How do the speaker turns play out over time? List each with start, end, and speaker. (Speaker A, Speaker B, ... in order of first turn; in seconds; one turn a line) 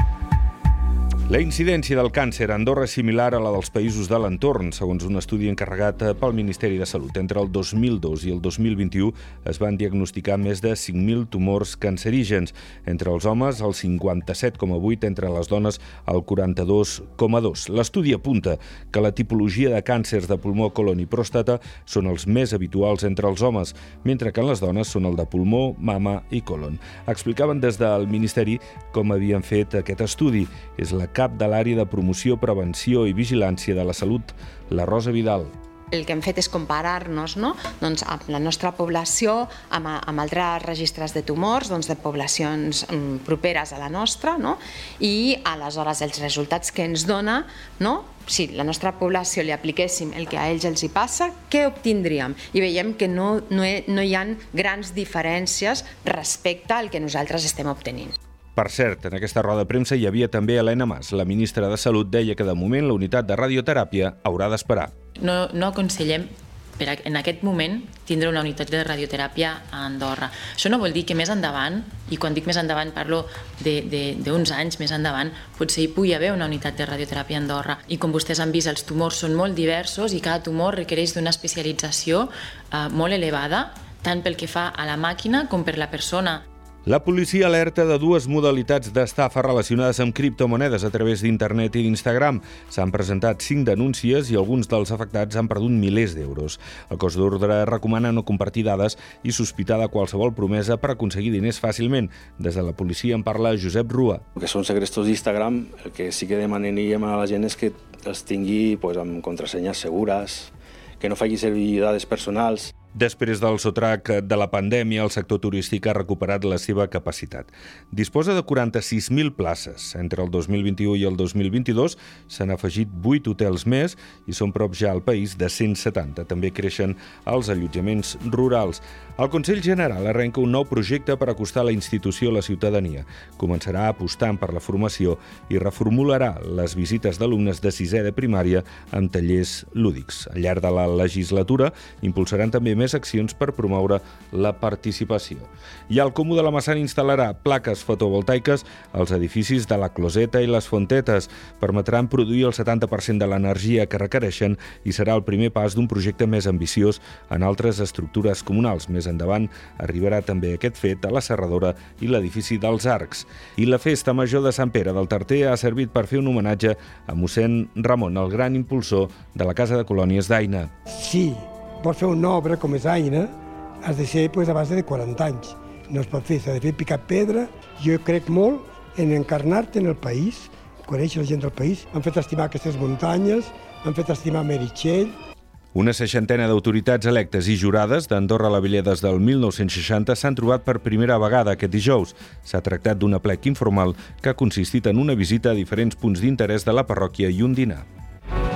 Speaker A: 1.3-35.5
Speaker B: 35.9-58.1
Speaker A: 58.6-64.9
Speaker C: 65.2-86.5
Speaker A: 86.9-104.2
Speaker D: 104.4-112.7
Speaker A: 112.9-170.7
Speaker E: 170.9-173.3
Speaker E: 173.8-185.2
Speaker A: 185.7-197.9